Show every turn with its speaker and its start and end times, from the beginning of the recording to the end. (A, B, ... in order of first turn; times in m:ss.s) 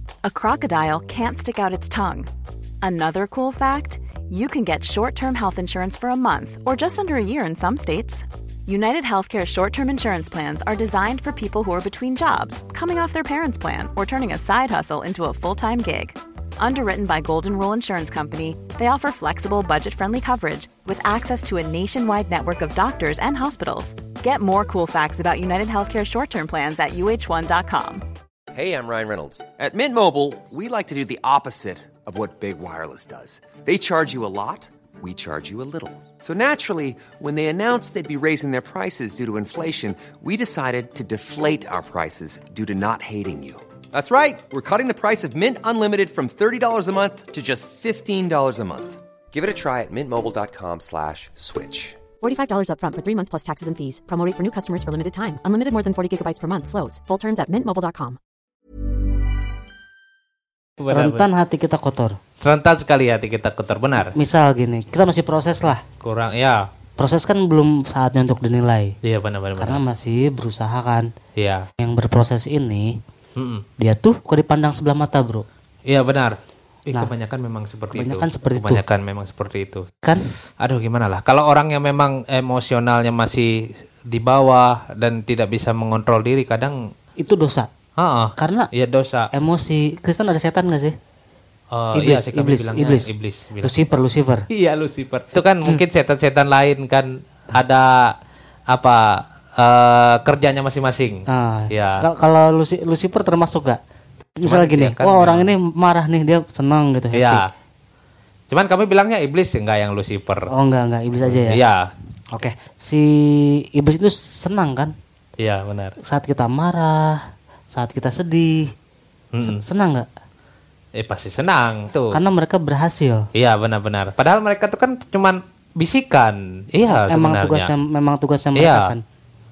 0:00.2-0:02.3 A
0:02.8-0:28.0 A
0:28.5-0:52.0 B
0:52.2-0:58.2 C
1:00.8-1:01.3 D
1:00.9-1:02.2 E
1:02.4-1:04.1 D
1:04.1-1:05.8 E
1:06.0-1:06.7 D
1:07.0-1:09.0 E
1:09.0-1:09.8 D
1:09.6-1:11.1 E
1:11.4-1:11.6 D
1:11.8-1:13.0 E
1:13.4-1:13.6 D
1:13.8-1:15.4 E
1:15.9-1:26.8 D
1:17.9-1:18.8 E
1:27.2-1:27.7 E
1:28.0-1:29.3 D
1:28.4-1:28.7 E
1:29.3-1:31.0 E
1:31.7-1:33.7 D
1:31.9-1:33.1 E
1:33.6-1:34.5 E
1:34.5-1:38.1 D
1:38.7-1:42.0 D
1:41.3-1:43.8 E
1:44.4-1:47.4 E
1:44.4-1:45.6 D
1:47.1-1:47.5 D
1:48.5-1:50.5 D
1:50.5-1:51.6 E
1:51.2-1:51.9 D
1:52.3-1:54.9 E
1:55.4-1:56.0 D
1:56.0-1:58.7 E
1:59.3-1:59.6 D
1:59.4-2:00.1 E
2:01.0-2:02.2 D
2:02.1-2:03.2 E
2:03.4-2:07.7 D
2:06.9-2:09.0 E
2:08.6-2:09.0 D